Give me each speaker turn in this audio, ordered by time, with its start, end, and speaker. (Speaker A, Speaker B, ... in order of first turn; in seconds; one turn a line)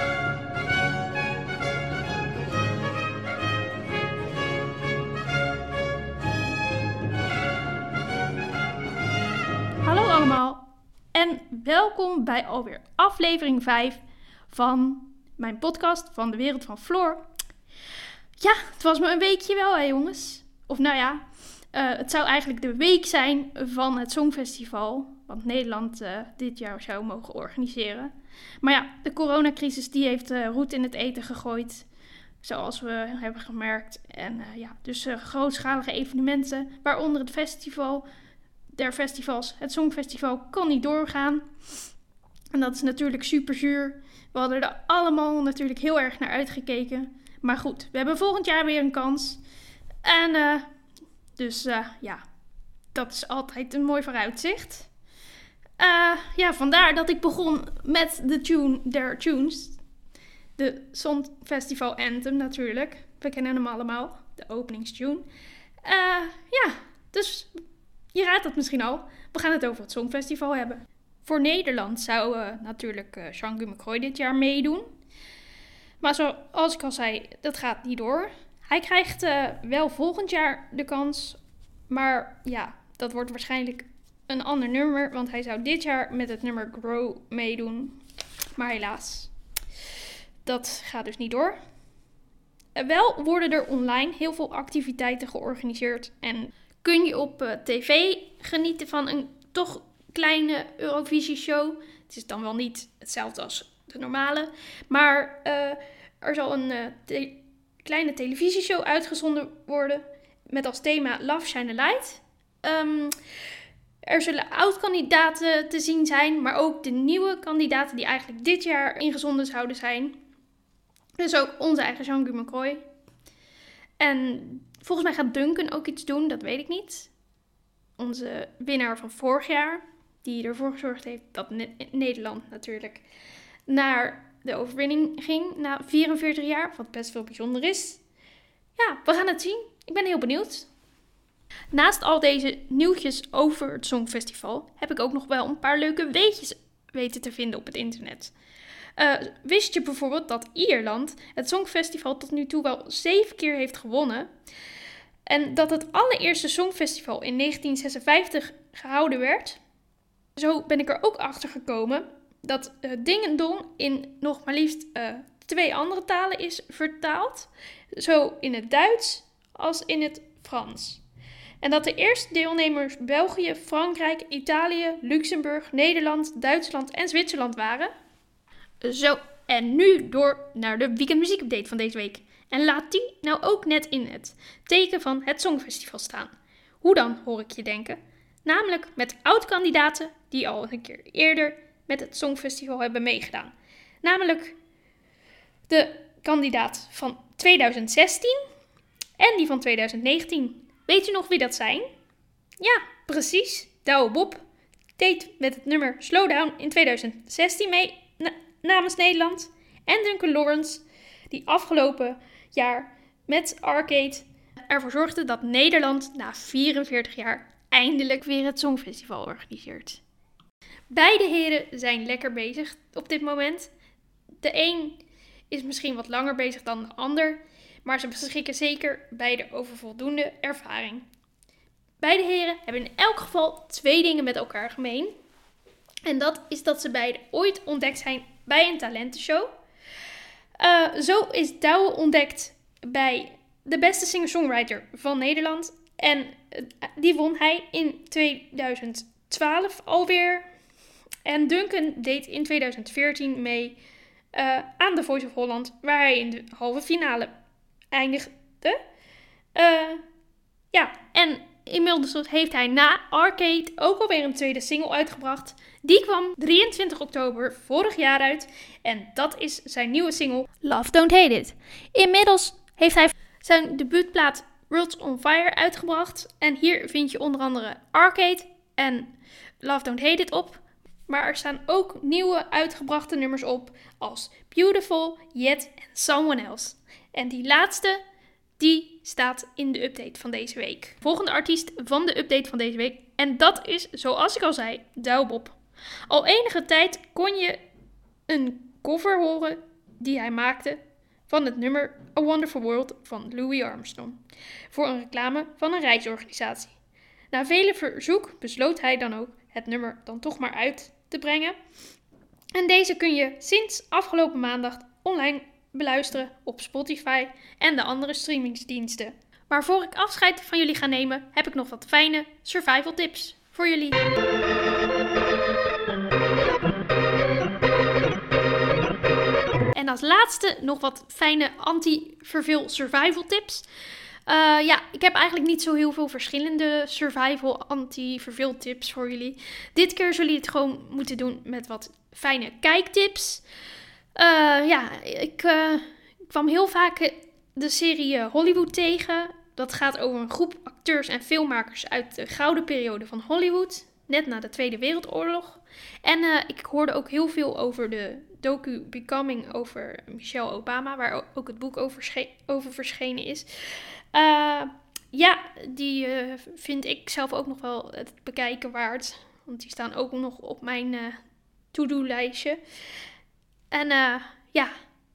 Speaker A: 9.8-17.2
Speaker A: 18.4-31.9
Speaker A: 32.4-38.0
Speaker A: 38.7-41.5
Speaker A: 42.5-49.4
Speaker A: 50.0-50.7
Speaker A: 51.4-52.2
Speaker A: 52.9-54.9
Speaker A: 55.8-59.8
Speaker A: 60.6-65.2
Speaker A: 65.8-67.5
Speaker A: 68.1-74.9
Speaker A: 76.0-88.0
Speaker A: 88.6-89.3
Speaker A: 90.4-91.6
Speaker A: 92.7-113.2
Speaker A: 114.0-120.2
Speaker A: 121.2-122.8
Speaker A: 124.0-127.1
Speaker A: 128.0-133.0
Speaker A: 133.7-138.0
Speaker A: 138.8-140.7
Speaker A: 141.7-148.3
Speaker A: 149.0-154.3
Speaker A: 155.2-159.6
Speaker A: 160.3-171.0
Speaker A: 171.6-177.9
Speaker A: 178.8-194.6
Speaker A: 195.7-198.4
Speaker A: 199.2-201.9
Speaker A: 202.6-204.4
Speaker A: 205.0-220.0
Speaker A: 220.9-223.7
Speaker A: 224.4-231.1
Speaker A: 232.0-235.1
Speaker A: 236.1-239.5
Speaker A: 240.6-250.5
Speaker A: 251.2-253.8
Speaker A: 254.3-257.3
Speaker A: 257.9-258.8
Speaker A: 259.5-260.0
Speaker A: 260.7-288.0
Speaker A: 288.6-295.6
Speaker A: 296.1-297.6
Speaker A: 298.3-304.2
Speaker A: 304.7-306.7
Speaker A: 307.3-311.6
Speaker A: 312.5-324.0
Speaker A: 329.7-333.6
Speaker A: 334.2-343.4
Speaker A: 344.1-371.2
Speaker A: 371.7-372.6
Speaker A: 373.7-374.7